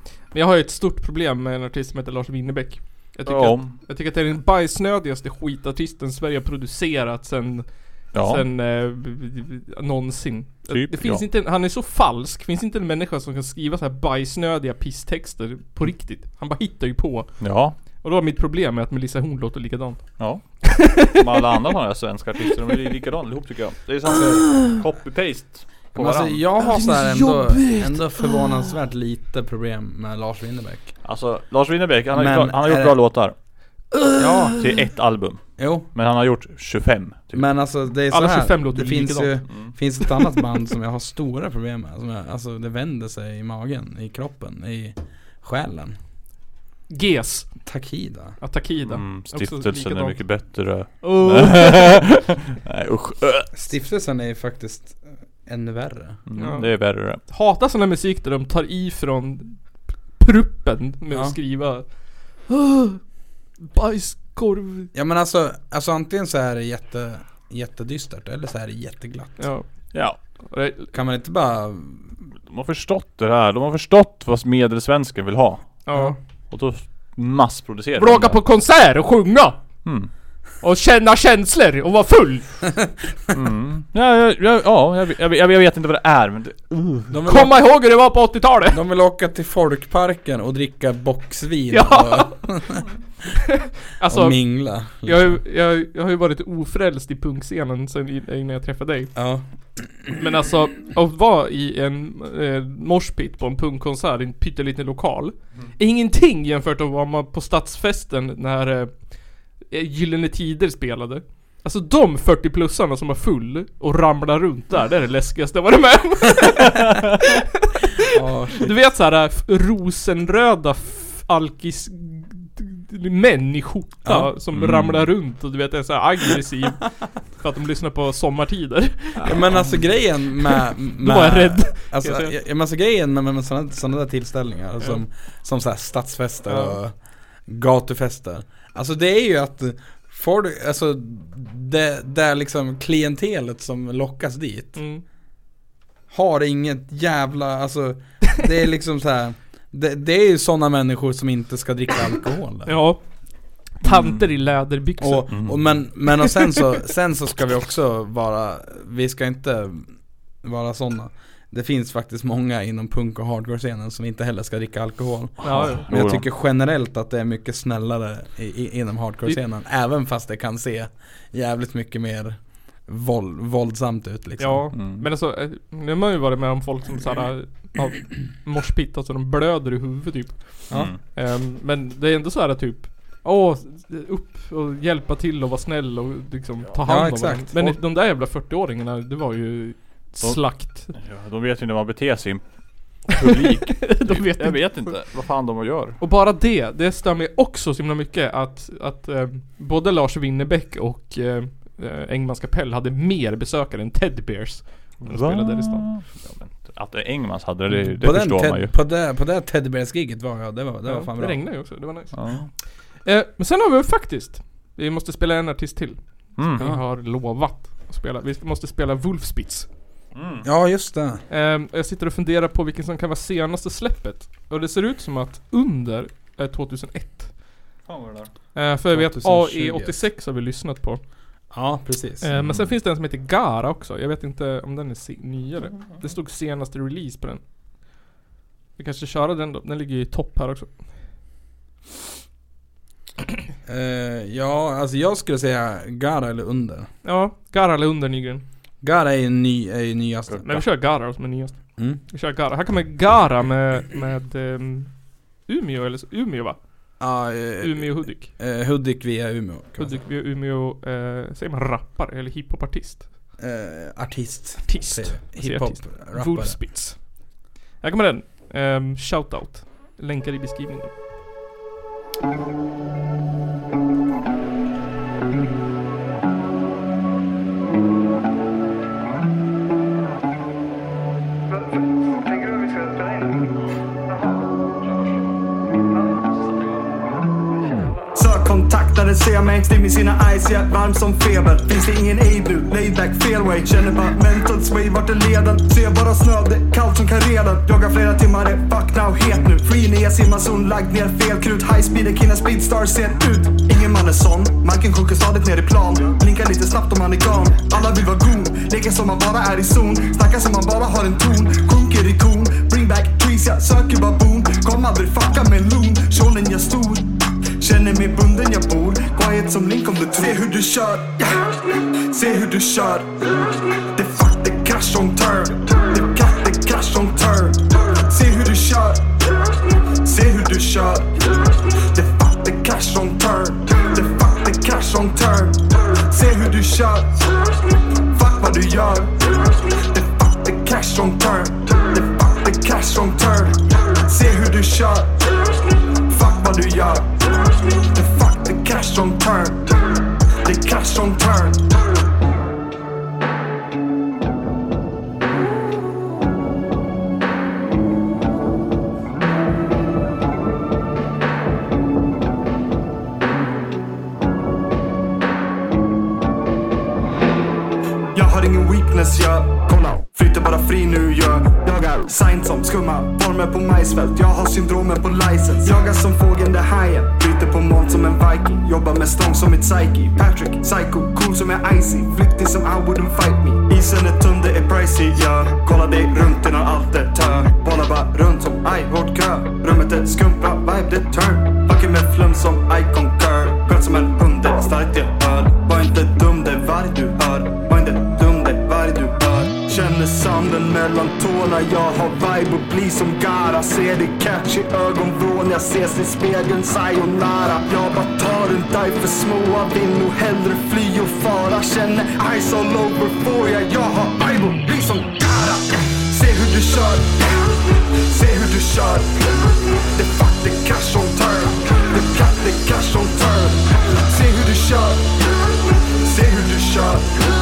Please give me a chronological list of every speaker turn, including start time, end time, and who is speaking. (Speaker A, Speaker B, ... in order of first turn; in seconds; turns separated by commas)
Speaker A: 0.3-17.3, Speaker B: 3.2-3.8, Speaker B: 8.1-8.4, Speaker B: 10.7-11.2, Speaker B: 17.4-17.8, Speaker A: 18.0-20.9, Speaker B: 20.2-26.4, Speaker C: 25.9-30.9, Speaker A: 26.6-28.4, Speaker B: 31.0-33.3, Speaker C: 32.1-32.9, Speaker A: 33.9-34.6, Speaker C: 34.2-34.6, Speaker B: 34.5-35.4, Speaker C: 35.6-35.9, Speaker B: 35.9-37.4, Speaker C: 37.3-46.0, Speaker A: 38.1-39.4, Speaker A: 46.9-47.5, Speaker C: 47.6-48.4, Speaker A: 48.4-50.2, Speaker B: 48.8-53.5, Speaker A: 51.0-52.0, Speaker C: 53.5-56.2, Speaker B: 56.3-57.2, Speaker A: 56.4-59.6, Speaker A: 60.1-61.8, Speaker C: 61.1-61.4, Speaker A: 62.5-63.0, Speaker A: 63.6-64.9, Speaker C: 64.9-69.5, Speaker A: 69.4-69.7, Speaker A: 70.4-70.9, Speaker C: 70.9-72.1, Speaker B: 72.5-75.8, Speaker A: 75.8-76.2, Speaker B: 76.5-78.4, Speaker A: 78.0-79.6, Speaker B: 79.8-80.1, Speaker A: 80.6-82.7, Speaker B: 83.3-87.1, Speaker C: 87.1-87.5, Speaker A: 87.3-88.8, Speaker C: 88.7-92.9, Speaker A: 91.7-92.4, Speaker A: 93.5-99.1, Speaker C: 94.0-95.4, Speaker C: 99.1-99.4, Speaker A: 100.2-109.1, Speaker A: 109.7-117.3, Speaker C: 118.1-118.7, Speaker A: 118.6-129.4, Speaker C: 124.0-124.3, Speaker B: 124.5-125.1, Speaker C: 129.2-144.8, Speaker A: 131.0-132.3, Speaker A: 136.4-136.8, Speaker A: 144.8-145.0, Speaker C: 146.1-152.8, Speaker A: 152.7-153.0, Speaker A: 153.8-155.4, Speaker B: 153.9-154.2, Speaker C: 155.0-174.7, Speaker B: 155.3-155.6, Speaker A: 156.2-156.5, Speaker B: 165.4-166.2, Speaker A: 165.4-165.8, Speaker A: 174.4-190.9, Speaker B: 174.7-175.1, Speaker B: 180.7-181.0, Speaker C: 186.8-187.7, Speaker B: 190.2-196.0, Speaker A: 193.2-194.9, Speaker A: 196.0-205.9, Speaker B: 205.0-208.7, Speaker C: 207.7-211.4, Speaker A: 210.8-212.2, Speaker B: 212.1-212.5, Speaker A: 213.0-219.7, Speaker B: 216.4-216.7, Speaker B: 220.1-220.4, Speaker C: 220.4-221.2, Speaker A: 221.3-227.4, Speaker B: 227.8-228.3, Speaker A: 228.5-231.0, Speaker C: 228.9-230.1, Speaker C: 231.5-232.3, Speaker A: 232.2-237.4, Speaker B: 232.3-232.7, Speaker A: 238.8-240.9, Speaker C: 243.7-246.9, Speaker A: 247.0-248.4, Speaker C: 248.8-250.6, Speaker B: 250.3-250.6, Speaker A: 250.4-254.9, Speaker A: 255.4-256.6, Speaker C: 257.0-260.0, Speaker A: 257.6-258.3, Speaker A: 259.8-263.1, Speaker C: 263.4-266.6, Speaker A: 264.6-267.2, Speaker A: 267.8-270.9, Speaker D: 288.1-329.4, Speaker D: 330.0-337.4, Speaker D: 338.1-349.7, Speaker D: 350.4-351.7, Speaker D: 368.1-419.2, Speaker D: 419.9-425.1, Speaker D: 426.0-427.2